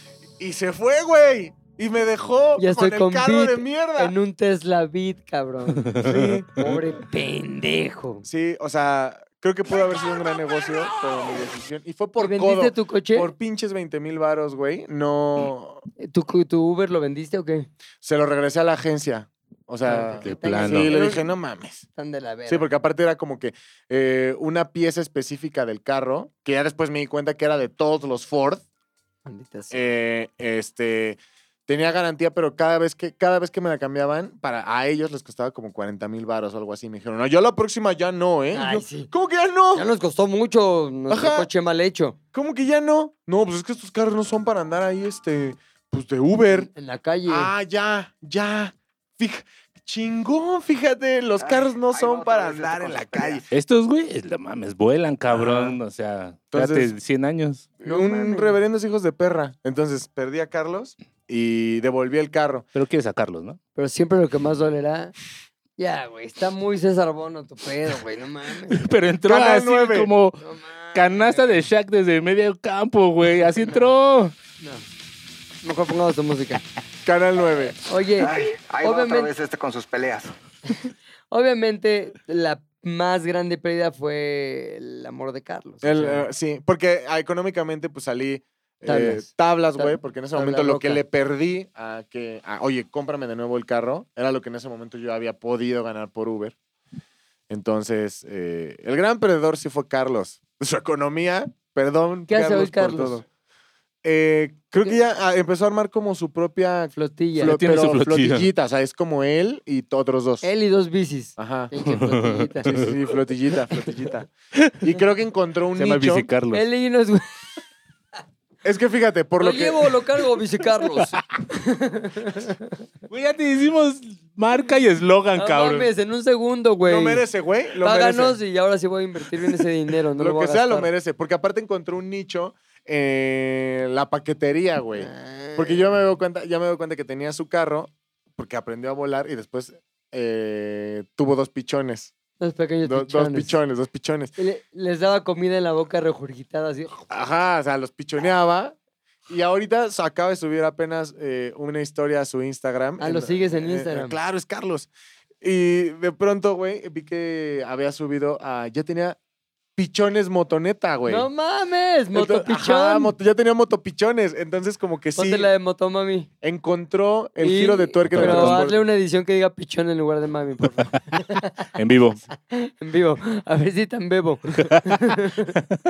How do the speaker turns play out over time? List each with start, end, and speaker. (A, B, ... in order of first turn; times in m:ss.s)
0:00.4-0:04.1 A
0:02.6-0:08.2 B
0:05.8-0:06.2 C
0:06.0-0:06.8 A
0:08.2-0:15.8 A
0:12.2-0:13.3 B
0:16.0-0:17.7 B
0:18.0-0:21.8 A
0:19.8-0:21.2 B
0:20.2-0:21.0 C
0:22.0-0:22.7 B
0:22.5-0:28.6 A
0:29.2-0:29.9 B
0:29.7-0:39.9 A
0:38.5-0:39.1 B
0:39.7-0:42.2 B
0:41.1-0:41.5 A
0:42.3-0:46.7 A
0:46.5-0:47.5 B
0:47.3-0:53.5 A
0:51.4-0:53.4 D
0:53.5-0:57.7 C
0:55.3-0:55.8 A
0:56.5-0:56.9 A
0:57.8-1:02.7 A
0:57.8-0:58.6 B
1:02.7-1:03.6 C
1:03.8-1:05.1 B
1:05.8-1:08.8 B
1:08.7-1:10.4 C
1:09.3-1:10.1 A
1:10.4-1:11.6 B
1:10.9-1:14.3 C
1:14.6-1:14.8 B
1:15.6-1:16.6 B
1:17.0-1:17.8 A
1:17.8-1:19.3 B
1:18.2-1:20.3 D
1:20.7-1:26.2 B
1:25.8-1:36.5 A
1:28.8-1:31.0 B
1:37.5-1:43.2 A
1:42.3-1:43.2 B
1:44.0-1:50.5 A
1:46.9-1:47.5 B
1:47.4-1:48.5 C
1:50.4-1:52.8 B
1:51.4-1:51.7 A
1:51.8-1:52.9 C
1:52.6-1:56.3 A
1:55.8-1:56.6 C
1:56.5-1:57.3 B
1:58.6-2:00.0 A
1:59.4-2:02.7 B
2:03.1-2:05.9 C
2:05.3-2:07.2 B
2:06.8-2:08.4 A
2:07.8-2:10.9 B
2:10.2-2:22.1 A
2:15.0-2:15.9 B
2:22.4-2:23.6 B
2:22.8-2:24.4 A
2:24.4-2:27.1 B
2:27.1-2:28.8 A
2:29.3-2:34.9 A
2:33.0-2:34.2 B
2:35.4-2:39.2 A
2:39.8-2:41.3 A
2:41.1-2:43.1 B
2:42.1-2:45.5 A
2:45.2-2:46.3 B
2:46.4-2:48.8 A
2:47.4-2:51.7 B
2:48.1-2:48.7 C
2:50.8-2:51.2 C
2:51.8-2:52.2 C
2:52.5-2:55.6 B
2:54.6-2:55.0 C